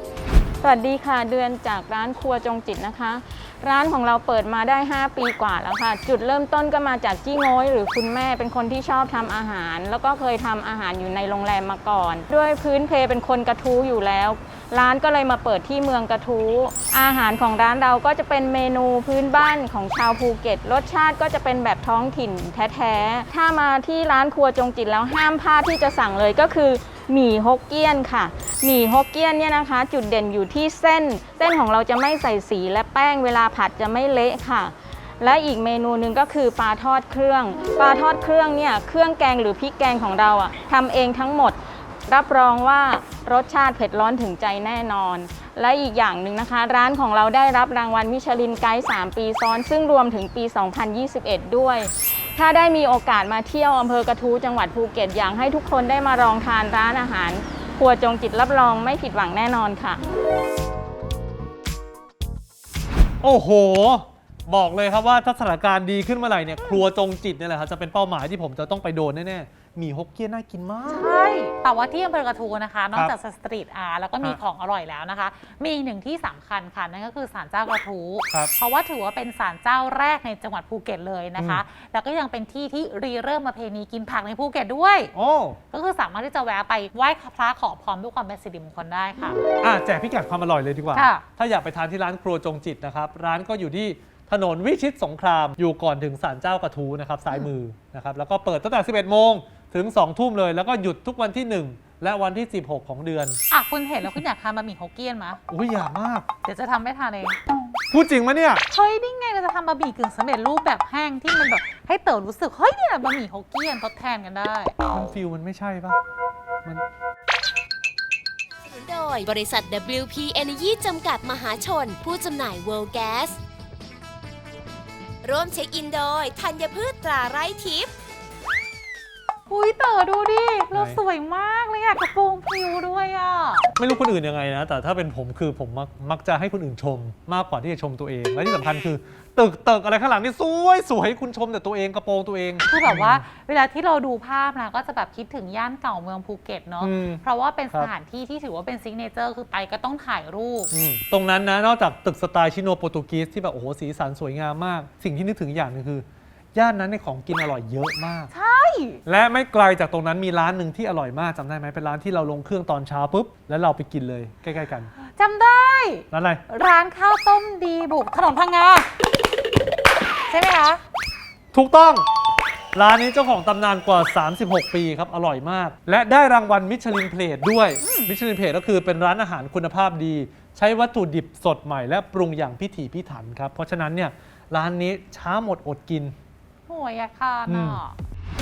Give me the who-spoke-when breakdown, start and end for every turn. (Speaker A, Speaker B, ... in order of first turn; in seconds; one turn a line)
Speaker A: 0.6-60.0
Speaker B: 63.2-71.1
Speaker C: 70.9-85.1
Speaker B: 81.4-81.6
Speaker B: 85.1-85.6
Speaker C: 85.7-89.4
Speaker B: 89.4-103.4
Speaker C: 90.9-91.2
Speaker C: 103.5-105.4
Speaker B: 105.5-106.2
Speaker C: 106.4-107.4
Speaker B: 107.9-108.6
Speaker C: 108.7-114.7
Speaker B: 114.9-116.0
Speaker D: 118.6-123.4
Speaker D: 125.2-127.9
Speaker C: 129.5-133.7
Speaker B: 130.7-131.0
Speaker B: 133.8-143.2
Speaker C: 142.7-150.7
Speaker B: 146.8-147.9
Speaker B: 150.7-158.3
Speaker C: 158.3-159.0
Speaker B: 159.1-164.9
Speaker C: 165.0-168.9
Speaker B: 166.1-166.4
Speaker C: 170.3-170.8
Speaker B: 171.5-172.0
Speaker B: 172.7-186.1
Speaker C: 177.8-178.1
Speaker C: 186.7-187.9
Speaker B: 187.5-187.8